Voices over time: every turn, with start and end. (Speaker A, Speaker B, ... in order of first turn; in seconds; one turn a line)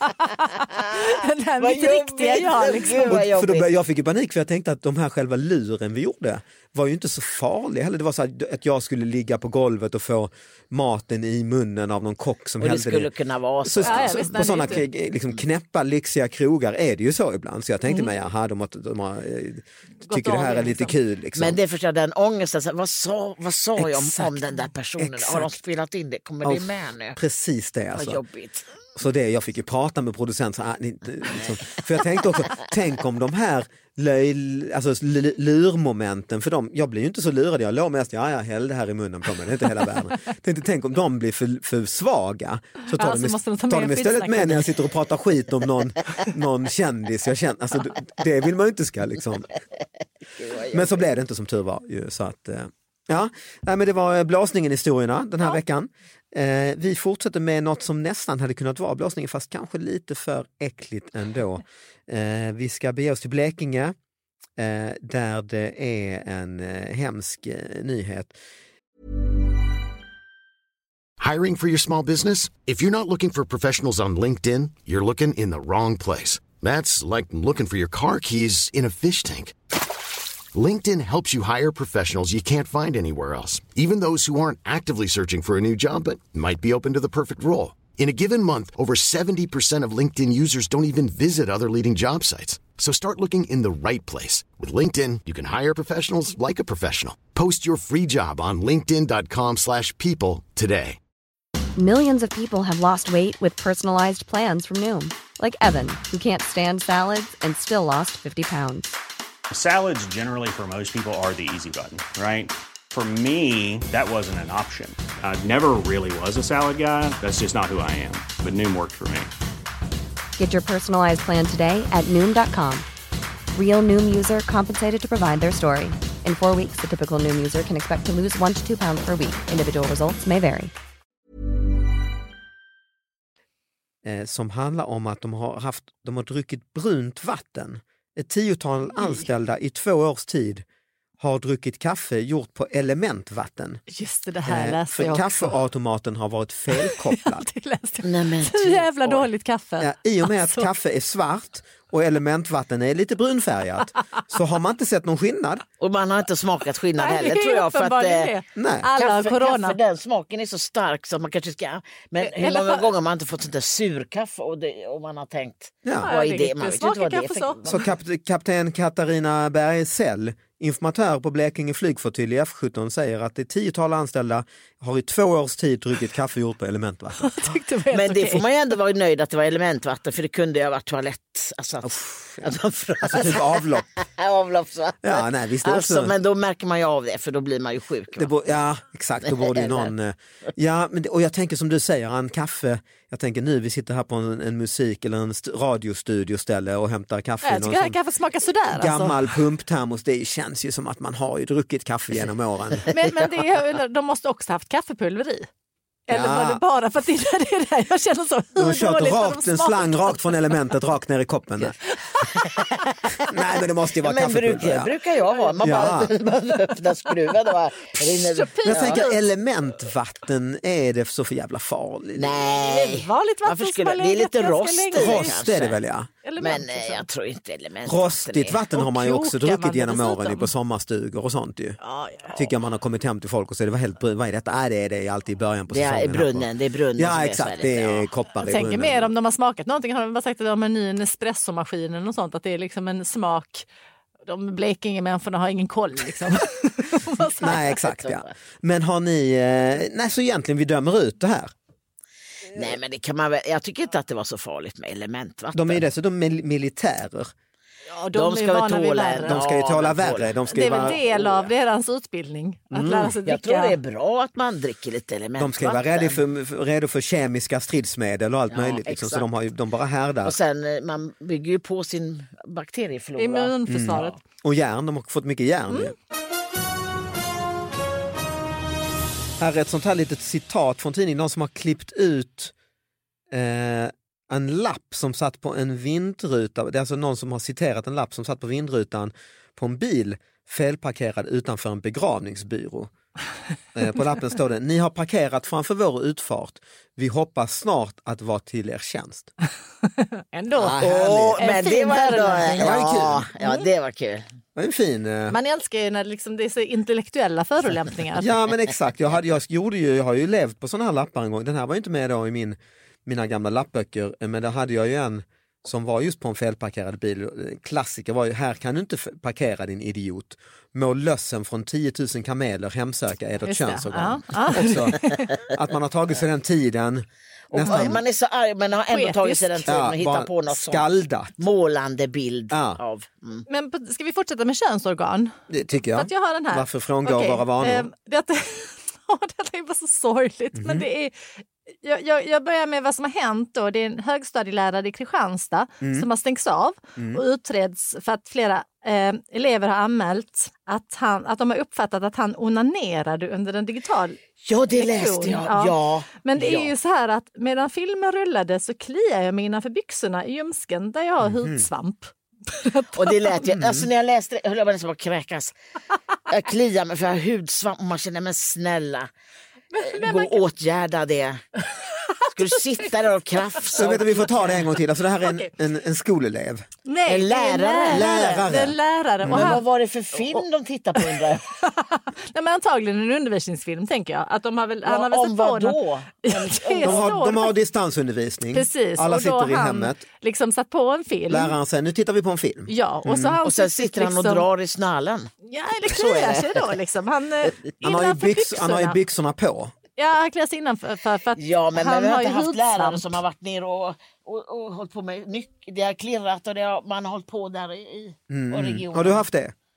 Speaker A: 0.2-3.2
Speaker B: 1.6-3.7
Speaker C: 3.0-13.1
Speaker B: 12.6-14.8
Speaker C: 13.6-21.6
Speaker A: 13.8-14.8
Speaker A: 20.1-20.9
Speaker B: 21.4-27.2
Speaker C: 23.8-24.4
Speaker C: 25.0-25.6
Speaker C: 26.4-28.2
Speaker B: 27.9-28.7
Speaker C: 28.9-49.5
Speaker A: 43.0-44.8
Speaker B: 50.4-51.0
Speaker C: 50.7-64.0
Speaker C: 64.6-68.3
Speaker D: 71.2-79.5
Speaker D: 80.5-101.0
Speaker E: 101.8-108.9
Speaker F: 109.5-119.3
Speaker E: 120.4-122.9
Speaker E: 123.5-130.7
Speaker C: 134.1-140.7
Speaker C: 141.2-143.8
Speaker A: 143.9-145.6
Speaker C: 144.4-147.5
Speaker A: 146.7-150.7
Speaker B: 148.0-149.3
Speaker C: 149.8-155.6
Speaker B: 155.8-158.3
Speaker A: 157.0-159.8
Speaker C: 158.6-158.9
Speaker B: 159.0-167.8
Speaker A: 162.2-162.9
Speaker C: 165.8-166.1
Speaker A: 166.0-167.8
Speaker C: 167.7-177.4
Speaker A: 177.2-178.4
Speaker B: 177.9-188.3
Speaker C: 181.8-182.4
Speaker C: 183.0-183.8
Speaker C: 185.0-186.1
Speaker C: 188.2-198.0
Speaker B: 189.2-189.9
Speaker A: 197.4-199.3
Speaker C: 198.7-202.9
Speaker A: 202.9-205.5
Speaker A: 206.1-210.6
Speaker C: 206.1-206.6
Speaker C: 208.6-211.8
Speaker A: 212.1-212.7
Speaker B: 212.2-213.3
Speaker C: 213.3-214.9
Speaker B: 214.0-219.0
Speaker A: 215.3-215.9
Speaker C: 215.6-216.1
Speaker A: 218.1-219.2
Speaker C: 218.7-222.4
Speaker B: 222.2-225.8
Speaker A: 222.5-225.4
Speaker C: 224.9-226.1
Speaker A: 226.2-227.1
Speaker B: 226.4-228.6
Speaker C: 227.8-231.8
Speaker A: 228.7-230.5
Speaker A: 231.8-232.5
Speaker C: 232.3-239.1
Speaker B: 235.7-238.1
Speaker A: 238.4-243.7
Speaker A: 244.3-247.8
Speaker C: 247.4-251.5
Speaker B: 248.0-248.3
Speaker B: 252.6-255.8
Speaker C: 255.5-257.3
Speaker A: 257.9-259.4
Speaker B: 258.1-261.5
Speaker C: 259.2-261.0
Speaker A: 260.5-263.8
Speaker C: 262.7-263.2
Speaker B: 263.3-266.2
Speaker C: 265.4-270.4
Speaker B: 268.5-269.3
Speaker B: 270.2-274.1
Speaker A: 273.2-274.2
Speaker C: 273.7-275.9
Speaker A: 275.7-275.9
Speaker C: 279.4-282.5
Speaker C: 283.3-292.9
Speaker C: 293.8-299.3
Speaker A: 300.0-300.9
Speaker B: 300.6-304.2
Speaker C: 300.6-301.5
Speaker A: 301.4-302.7
Speaker C: 302.2-303.3
Speaker A: 303.4-303.7
Speaker C: 304.6-305.4
Speaker A: 305.3-308.3
Speaker C: 308.1-328.0
Speaker A: 323.4-325.3
Speaker B: 327.5-330.9
Speaker A: 328.9-329.7
Speaker C: 329.7-331.3
Speaker B: 331.4-333.5
Speaker C: 332.5-332.8
Speaker A: 333.5-335.3
Speaker C: 335.5-337.9
Speaker A: 335.9-341.1
Speaker C: 340.6-340.9
Speaker A: 341.8-354.2
Speaker C: 345.8-346.1
Speaker C: 347.0-347.2
Speaker B: 354.4-356.7
Speaker A: 354.7-363.4
Speaker C: 361.2-361.7
Speaker B: 362.9-365.6
Speaker C: 363.6-363.9
Speaker B: 366.3-369.1
Speaker A: 369.7-370.4
Speaker B: 369.8-371.4
Speaker A: 372.0-373.1
Speaker B: 372.3-374.6
Speaker C: 373.8-376.7
Speaker A: 375.2-375.5
Speaker A: 376.9-379.6
Speaker B: 377.1-378.6
Speaker C: 377.9-379.6
Speaker B: 379.3-381.5
Speaker A: 381.0-387.5
Speaker B: 384.9-387.1
Speaker C: 386.8-390.0
Speaker A: 388.5-391.6
Speaker C: 391.3-393.4
Speaker A: 392.7-394.5
Speaker B: 393.4-395.3
Speaker A: 395.5-399.0
Speaker B: 395.9-396.6
Speaker C: 397.8-399.7
Speaker A: 400.0-403.2
Speaker B: 401.4-409.2
Speaker C: 408.3-409.5